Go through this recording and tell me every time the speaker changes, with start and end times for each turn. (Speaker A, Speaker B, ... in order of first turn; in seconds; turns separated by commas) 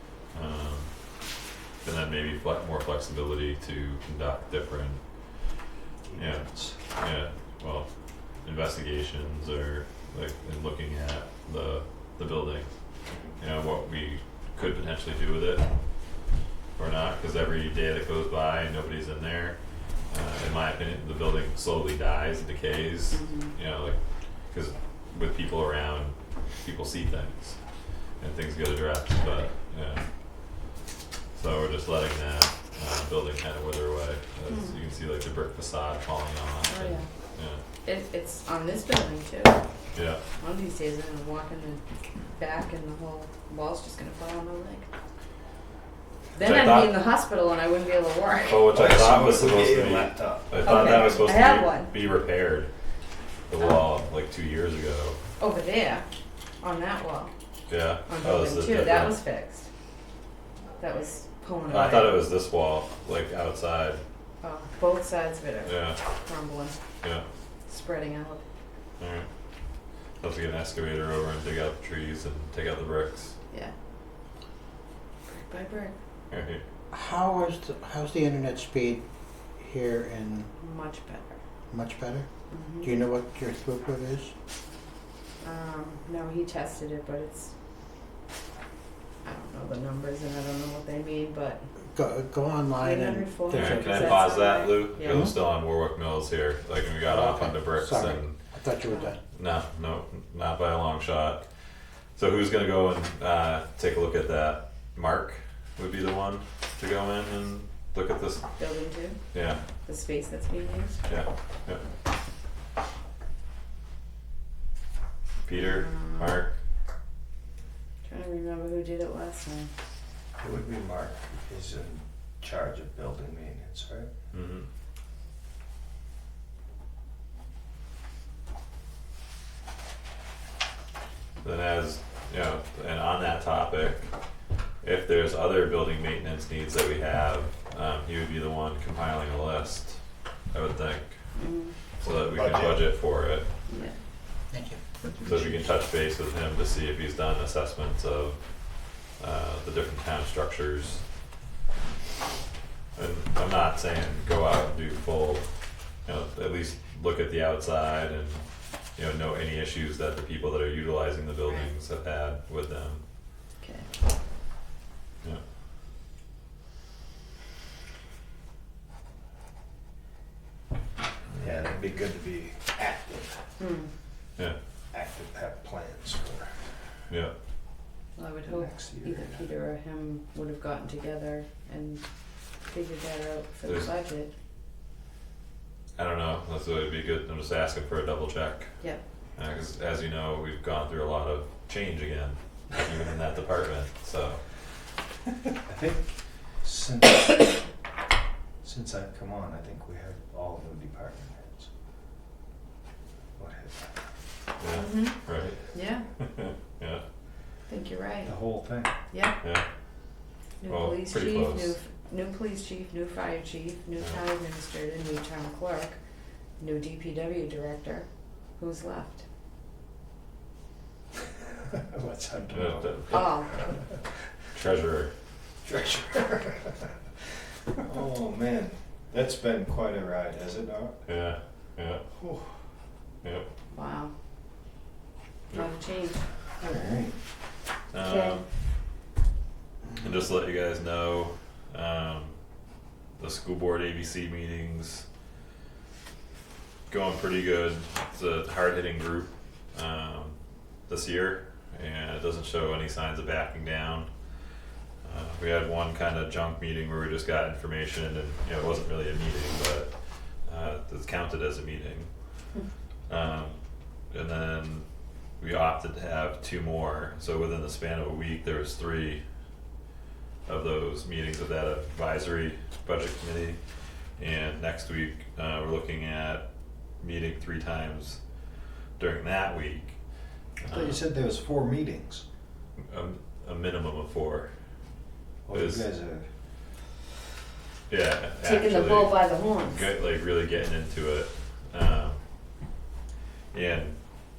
Speaker A: 0.3-1.1, Speaker A: 1.8-5.0, Speaker B: 6.1-6.8, Speaker A: 6.2-7.9, Speaker A: 8.4-12.7, Speaker B: 13.1-13.4, Speaker A: 13.4-15.7, Speaker A: 16.8-27.6, Speaker C: 23.1-23.6, Speaker A: 28.2-30.0, Speaker A: 31.4-37.6, Speaker C: 34.5-34.8, Speaker C: 36.7-37.1, Speaker C: 37.8-39.6, Speaker A: 39.9-40.2, Speaker C: 40.4-41.8, Speaker C: 42.3-44.9, Speaker C: 46.4-48.7, Speaker A: 46.4-47.0, Speaker A: 48.5-52.7, Speaker B: 48.7-51.2, Speaker C: 50.6-52.0, Speaker A: 53.5-55.2, Speaker C: 55.4-56.0, Speaker C: 56.6-57.3, Speaker A: 57.7-59.2, Speaker C: 58.1-59.7, Speaker C: 60.8-62.3, Speaker A: 61.7-64.0, Speaker C: 64.4-66.8, Speaker A: 65.7-66.0, Speaker C: 67.7-68.4, Speaker A: 69.0-69.3, Speaker A: 70.2-73.3, Speaker C: 75.3-75.9, Speaker A: 76.3-76.6, Speaker D: 76.9-79.0, Speaker D: 79.6-80.5, Speaker C: 80.6-81.4, Speaker D: 81.7-82.3, Speaker C: 82.5-82.9, Speaker D: 82.8-84.3, Speaker C: 85.4-87.5, Speaker C: 89.2-91.7, Speaker D: 91.9-94.2, Speaker C: 92.8-95.3, Speaker A: 93.5-98.4, Speaker D: 95.0-95.3, Speaker D: 97.1-99.2, Speaker A: 99.3-101.5, Speaker A: 102.2-108.5, Speaker C: 108.6-109.2, Speaker A: 109.3-109.6, Speaker C: 109.8-111.0, Speaker A: 111.1-111.8, Speaker A: 115.5-116.5, Speaker C: 115.5-116.4, Speaker C: 118.0-119.7, Speaker B: 120.4-124.1, Speaker A: 124.3-124.7, Speaker A: 131.4-134.1, Speaker A: 134.8-140.0, Speaker A: 140.5-141.2, Speaker C: 141.4-141.8, Speaker A: 142.0-143.5, Speaker B: 142.1-142.8, Speaker C: 143.7-143.9, Speaker D: 144.5-145.6, Speaker A: 145.2-148.4, Speaker A: 149.2-151.0, Speaker A: 153.0-155.5, Speaker A: 156.1-163.0, Speaker C: 163.6-163.9, Speaker B: 171.3-173.4, Speaker C: 173.6-173.9, Speaker B: 174.9-176.6, Speaker A: 177.1-177.3, Speaker C: 178.2-182.0, Speaker B: 178.5-179.5, Speaker C: 182.7-184.3, Speaker A: 183.7-183.9, Speaker A: 186.0-188.7, Speaker A: 189.4-194.4, Speaker B: 195.7-196.1, Speaker B: 196.6-197.5, Speaker B: 198.6-201.7, Speaker B: 203.4-204.0, Speaker A: 204.6-205.6, Speaker C: 204.7-205.2, Speaker C: 205.7-206.1, Speaker A: 206.2-207.0, Speaker C: 207.7-208.4, Speaker B: 208.2-208.9, Speaker C: 209.1-209.4, Speaker C: 210.6-216.0, Speaker A: 210.7-211.8, Speaker C: 216.6-218.1, Speaker C: 218.6-219.2, Speaker B: 221.7-224.0, Speaker A: 222.5-223.4, Speaker C: 223.1-223.6, Speaker A: 224.5-225.1, Speaker B: 225.6-226.9, Speaker B: 227.8-231.0, Speaker A: 231.1-232.0, Speaker B: 232.2-232.5, Speaker A: 233.2-233.5, Speaker C: 233.7-234.1, Speaker C: 235.5-236.2, Speaker B: 236.6-237.2, Speaker A: 237.9-238.5, Speaker C: 238.0-238.4, Speaker A: 240.0-242.4, Speaker A: 243.2-245.1, Speaker A: 246.9-250.4, Speaker A: 250.9-254.1, Speaker A: 255.0-259.9, Speaker A: 260.5-262.1, Speaker A: 263.1-263.6, Speaker A: 264.1-264.9, Speaker A: 265.4-269.2, Speaker A: 270.5-273.6, Speaker A: 274.2-276.4, Speaker A: 277.0-278.2, Speaker A: 279.0-280.0, Speaker A: 280.6-281.0, Speaker B: 280.6-282.2, Speaker A: 282.8-284.5, Speaker B: 285.4-286.3, Speaker A: 285.5-285.9, Speaker A: 287.9-292.2, Speaker C: 288.4-289.9, Speaker A: 293.5-294.0